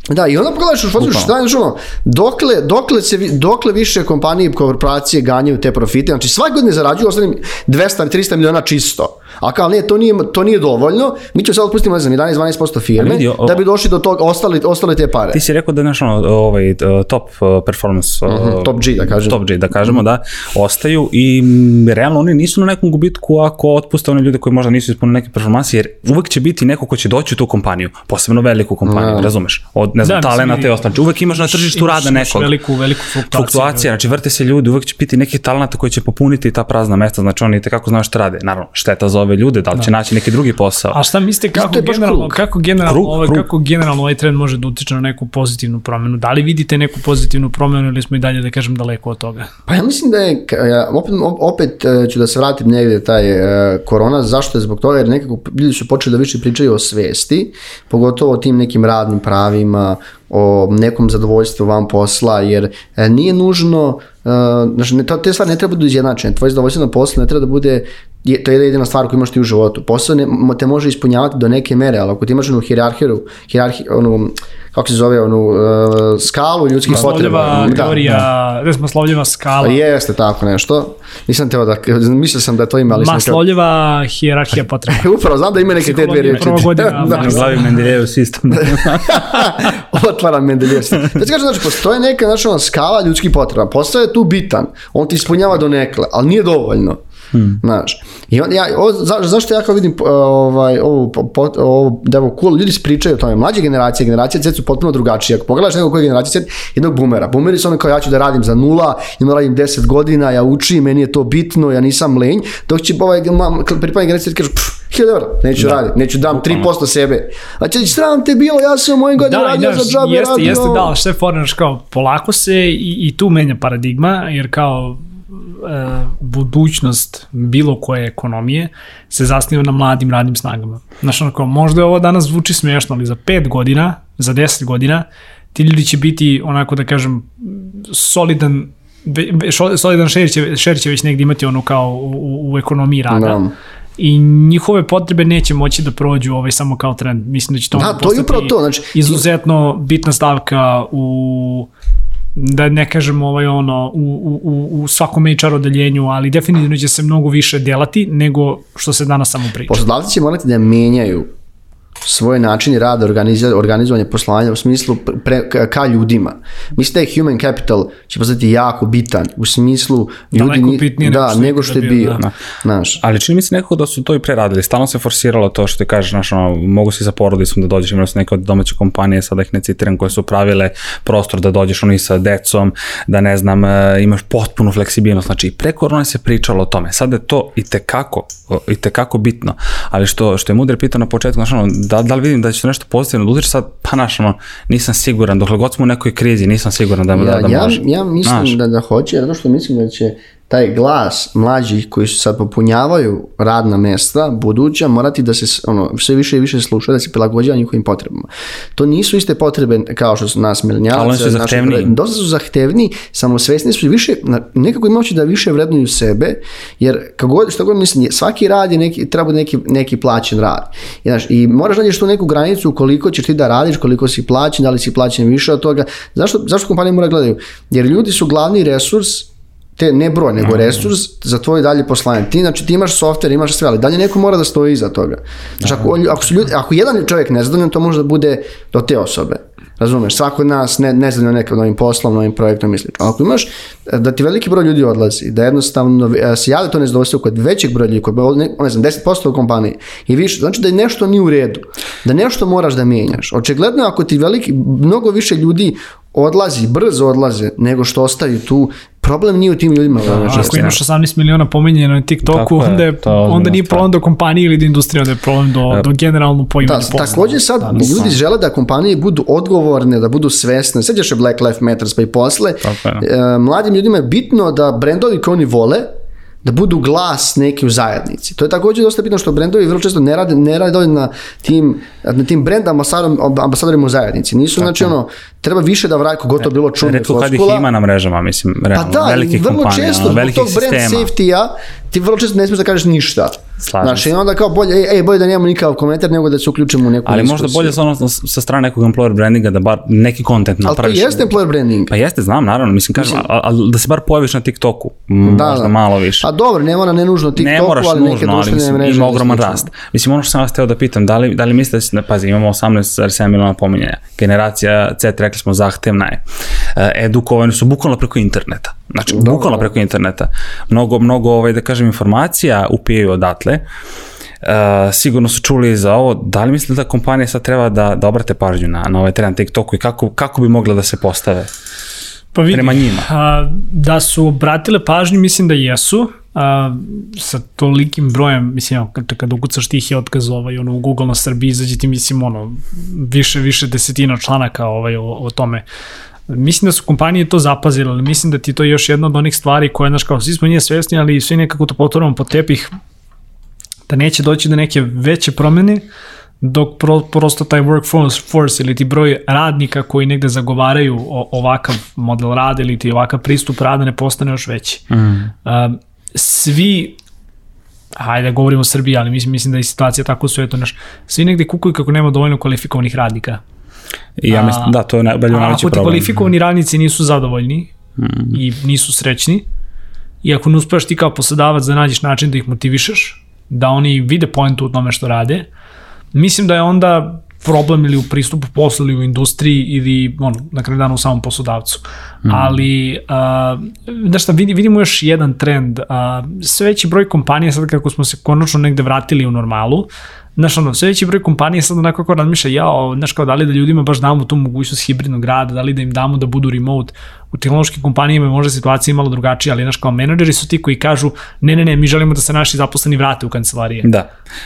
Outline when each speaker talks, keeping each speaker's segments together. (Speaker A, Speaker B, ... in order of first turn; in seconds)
Speaker A: 0.1-15.4, 18.2-20.0, 28.8-29.3, 41.5-42.4, 49.7-78.0, 79.6-83.4, 84.9-87.6, 88.6-97.0, 97.6-120.9, 143.1-143.5, 147.7-149.2, 159.7-161.3, 162.0-173.0, 197.1-260.7, 266.6-275.9, 276.4-287.7, 288.7-297.8, 300.6-301.9, 303.0-303.2, 305.2-309.7, 319.1-319.7
Speaker B: 1.0-1.3, 13.0-13.6, 15.3-32.6, 33.3-41.0, 42.8-43.4, 86.9-89.7, 97.3-97.6, 116.3-116.7, 173.0-198.6, 210.9-211.9, 235.6-235.9, 260.2-260.8, 262.2-263.8, 267.7-268.2, 272.6-273.0, 284.6-284.9, 286.8-291.1, 293.6-294.1, 297.0-301.3, 301.9-306.3, 307.4-316.2, 316.7-323.6, 324.4-331.5, 332.5-333.1, 364.9-365.3, 374.2-376.2, 378.0-378.4, 392.2-392.6, 413.8-414.1
Speaker C: 30.0-30.7, 31.3-33.9, 40.9-49.5, 76.9-79.8, 82.9-85.1, 85.8-87.8, 119.2-143.4, 144.0-151.7, 152.3-159.8, 170.3-172.2, 260.0-268.0, 332.3-345.6, 346.3-352.7, 353.9-355.9, 356.4-364.8, 365.4-367.0, 367.9-373.4, 374.3-374.7, 375.3-377.7, 378.3-379.4, 380.2-385.5, 386.1-413.9